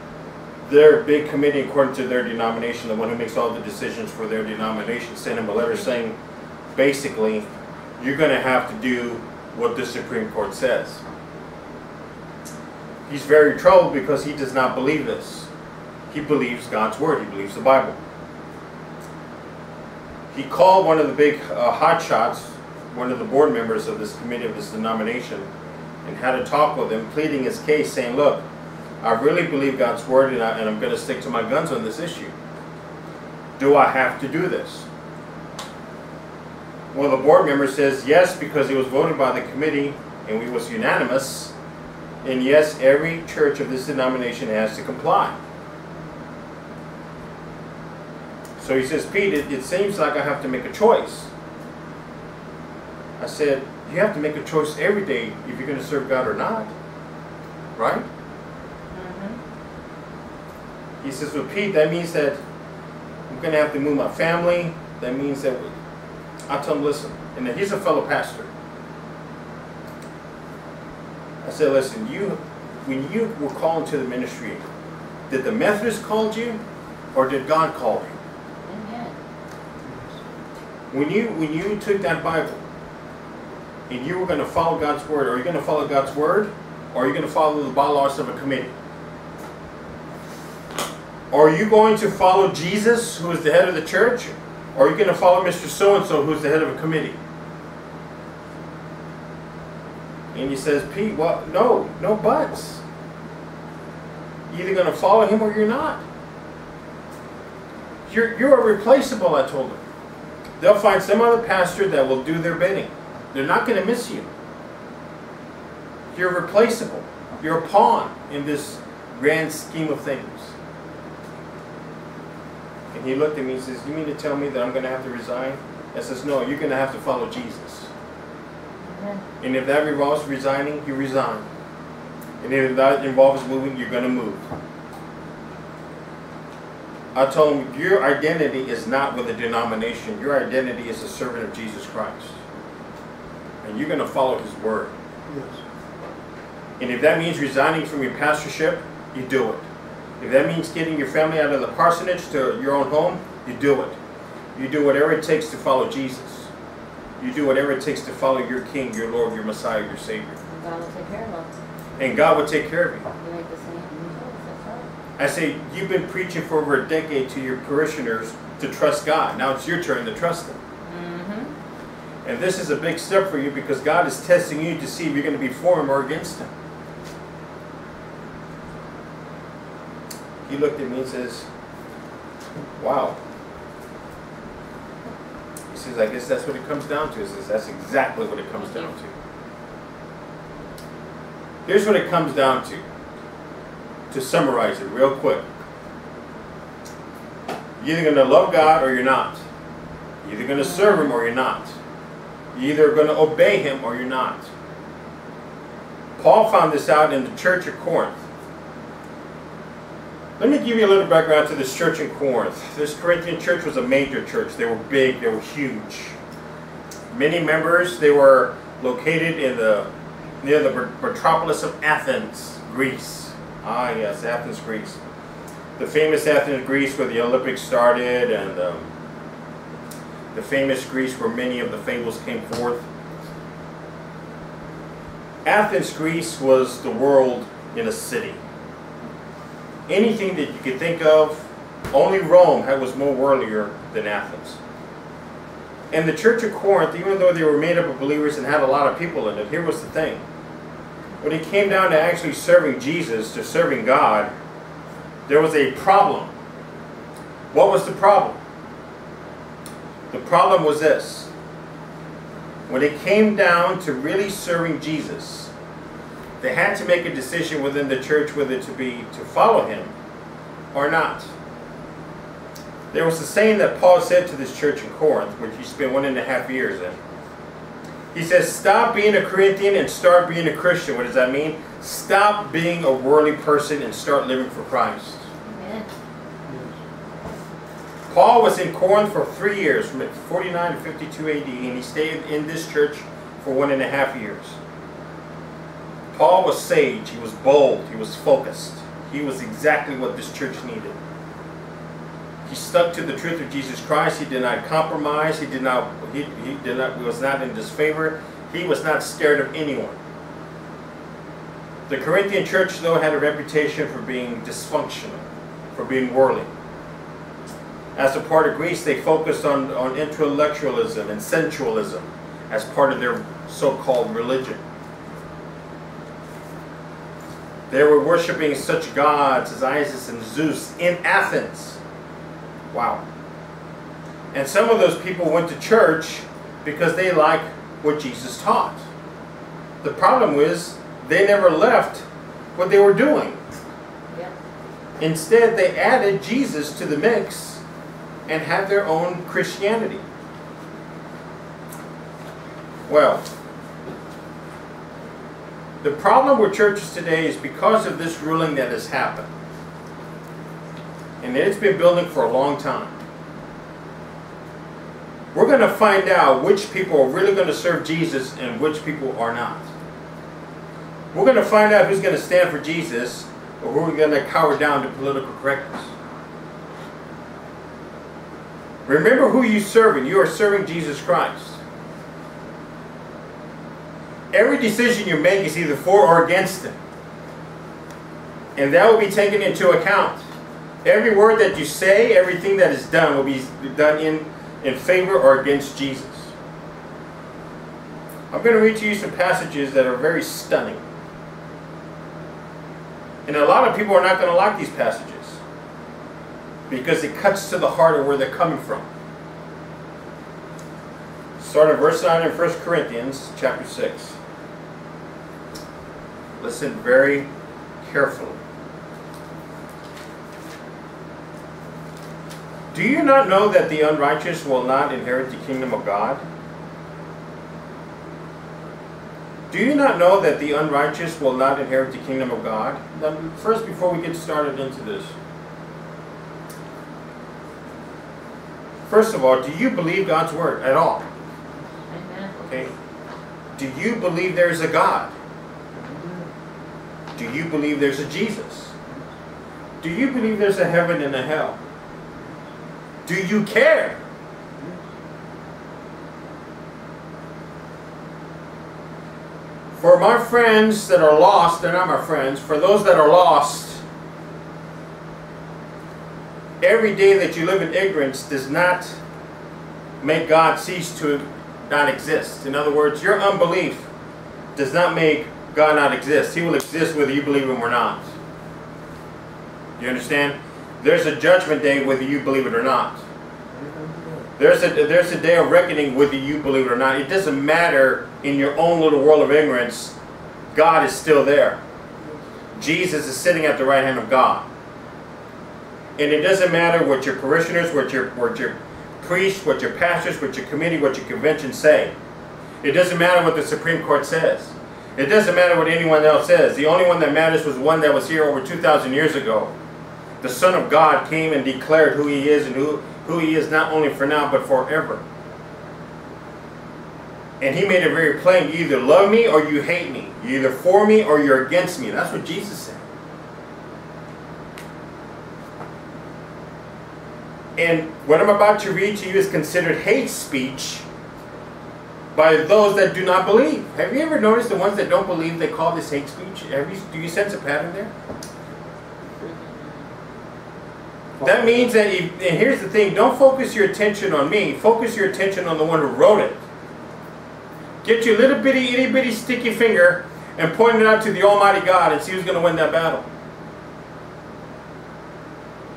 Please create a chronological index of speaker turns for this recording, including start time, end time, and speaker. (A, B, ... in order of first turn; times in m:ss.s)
0:00.7-0:06.2 A
0:06.7-0:07.5 A
0:08.0-0:11.0 A
0:13.1-0:15.5 A
0:16.1-0:18.0 A
0:20.3-0:25.5 A
0:26.0-0:28.4 A
0:29.0-0:32.3 A
0:33.6-0:34.9 A
0:36.9-0:41.5 A
0:42.2-0:45.4 A
0:48.6-0:51.3 A
0:53.2-0:56.7 A
0:57.8-0:58.1 A
0:58.9-0:59.4 B
1:01.0-1:02.4 A
1:03.3-1:05.7 A
1:06.5-1:08.5 A
1:11.4-1:14.6 A
1:15.3-1:16.6 A
1:17.1-1:18.2 A
1:18.6-1:19.2 B
1:19.8-1:20.2 C
1:20.9-1:22.6 A
1:23.9-1:28.7 A
1:31.3-1:37.2 A
1:40.3-1:42.8 A
1:44.5-1:46.0 A
1:48.1-1:49.8 A
1:50.6-1:54.3 A
1:56.1-2:00.5 A
2:02.9-2:07.9 A
2:08.8-2:09.2 B
2:09.4-2:11.5 A
2:12.4-2:14.4 A
2:17.1-2:22.4 A
2:23.6-2:25.0 A
2:25.3-2:25.6 C
2:26.8-2:29.7 A
2:30.2-2:34.0 A
2:34.6-2:36.5 A
2:37.2-2:40.4 A
2:40.5-2:41.5 B
2:42.0-2:43.1 A
2:43.2-2:44.9 B
2:45.2-2:50.6 A
2:50.8-2:51.5 B
2:52.2-2:56.5 A
3:00.5-3:01.5 A
3:02.8-3:03.2 A
3:05.7-3:09.1 A
3:08.6-3:08.9 B
3:11.7-3:12.8 A
3:14.1-3:15.4 A
3:17.8-3:19.4 A
3:20.2-3:21.8 A
3:22.5-3:24.5 A
3:26.2-3:28.2 A
3:30.4-3:36.2 A
3:37.1-3:39.9 A
3:40.4-3:45.0 A
3:45.8-3:48.9 A
3:50.3-3:52.9 A
3:55.4-3:58.4 A
3:59.9-4:04.6 A
4:05.9-4:10.2 A
4:11.2-4:14.3 A
4:15.3-4:16.3 A
4:17.5-4:18.4 A
4:20.1-4:21.3 A
4:22.7-4:25.5 A
4:26.4-4:29.9 A
4:30.7-4:31.3 A
4:32.9-4:37.0 A
4:38.1-4:45.3 A
4:45.4-4:45.9 B
4:46.5-4:46.8 C
4:48.1-4:54.6 A
4:56.1-5:01.0 A
5:02.5-5:10.0 A
5:11.9-5:16.5 A
5:18.0-5:24.6 A
5:27.7-5:31.8 A
5:32.7-5:33.0 A
5:34.3-5:38.9 A
5:39.8-5:42.0 A
5:42.6-5:43.4 A
5:45.0-5:47.6 A
5:48.3-5:50.0 A
5:52.9-5:53.3 A
5:55.8-5:59.3 A
6:01.2-6:03.0 A
6:05.3-6:09.7 A
6:11.1-6:15.9 A
6:18.9-6:21.6 A
6:24.3-6:26.8 A
6:28.6-6:30.2 A
6:30.8-6:36.3 A
6:38.3-6:40.8 A
6:43.3-6:45.4 A
6:46.7-6:48.9 A
6:51.4-6:54.2 A
6:56.4-6:57.3 A
6:57.8-6:58.4 A
7:02.7-7:06.3 A
7:09.5-7:15.2 A
7:18.9-7:21.0 A
7:21.9-7:22.4 B
7:22.4-7:22.7 A
7:23.6-7:25.1 A
7:25.7-7:26.3 C
7:27.2-7:28.7 A
7:29.8-7:31.6 A
7:32.2-7:32.4 C
7:33.1-7:34.0 A
7:34.6-7:34.9 C
7:39.8-7:43.8 A
7:46.6-7:49.0 A
7:50.0-7:53.9 A
7:54.6-7:58.1 A
7:59.8-8:03.0 A
8:03.5-8:04.3 C
8:04.4-8:10.0 A
8:10.5-8:11.6 A
8:12.6-8:14.5 A
8:16.0-8:21.9 A
8:22.6-8:29.5 A
8:30.2-8:35.0 A
8:37.4-8:42.8 A
8:47.6-8:50.9 A
8:52.1-8:57.9 A
8:59.2-8:59.8 B
9:01.2-9:01.7 C
9:01.2-9:06.4 A
9:07.8-9:13.1 A